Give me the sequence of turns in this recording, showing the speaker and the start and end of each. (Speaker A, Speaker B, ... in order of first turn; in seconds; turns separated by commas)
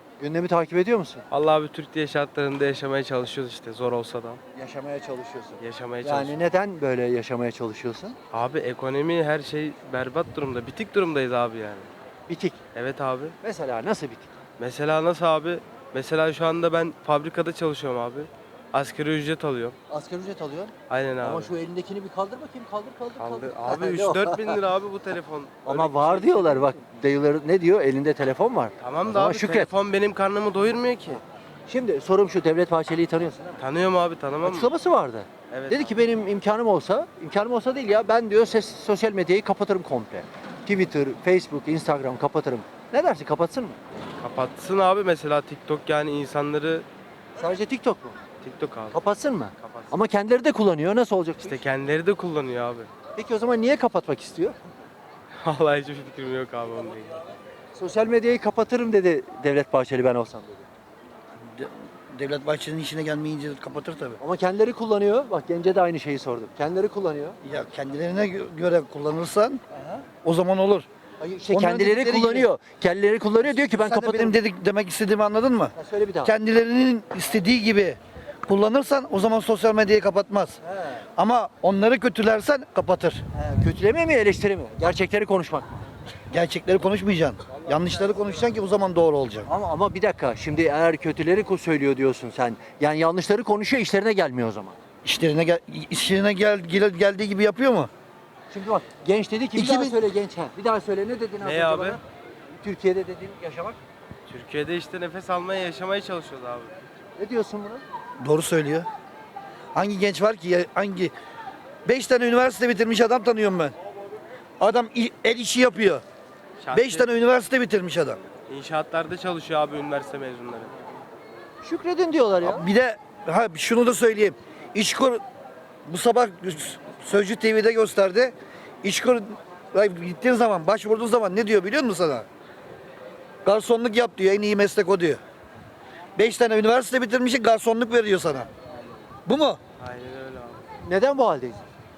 Speaker A: 0.2-1.2, Speaker B: 1.3-4.4, Speaker A: 4.5-8.2, Speaker B: 5.6-6.3, Speaker B: 8.3-11.9, Speaker A: 12.3-12.6, Speaker B: 12.7-13.3, Speaker A: 13.4-14.3, Speaker B: 14.6-19.8, Speaker A: 19.9-24.6, Speaker B: 20.9-21.6, Speaker B: 23.2-26.7, Speaker A: 25.6-29.7, Speaker B: 28.8-31.2, Speaker A: 31.7-33.6, Speaker B: 33.6-34.7, Speaker A: 34.4-43.8, Speaker B: 35.5-35.9, Speaker B: 44.2-46.9, Speaker A: 47.4-48.2, Speaker B: 48.4-49.0, Speaker A: 48.9-51.6, Speaker B: 49.6-49.9, Speaker B: 51.4-52.9, Speaker A: 53.1-54.6, Speaker B: 55.4-57.2, Speaker A: 57.8-60.6, Speaker C: 61.5-64.2, Speaker A: 64.2-67.4, Speaker C: 67.4-69.6, Speaker C: 70.2-70.9, Speaker A: 71.2-74.4, Speaker C: 71.5-72.5, Speaker C: 73.4-80.6, Speaker A: 75.8-76.3, Speaker A: 80.6-81.0, Speaker C: 81.2-83.2, Speaker A: 83.3-85.8, Speaker C: 86.3-89.5, Speaker A: 89.5-94.8, Speaker C: 95.0-97.9, Speaker A: 98.5-103.8, Speaker C: 99.5-100.0, Speaker B: 101.4-102.0, Speaker B: 104.3-106.7, Speaker A: 107.2-107.8, Speaker C: 108.2-108.9, Speaker C: 109.7-111.1, Speaker C: 111.9-113.8, Speaker C: 114.6-116.0, Speaker B: 116.6-117.1, Speaker C: 116.7-118.2, Speaker B: 118.5-120.7, Speaker A: 121.6-122.6, Speaker C: 122.4-125.2, Speaker C: 125.8-132.2, Speaker C: 133.4-135.2, Speaker C: 136.2-138.5, Speaker C: 139.2-139.6, Speaker B: 139.8-140.6, Speaker A: 140.8-141.6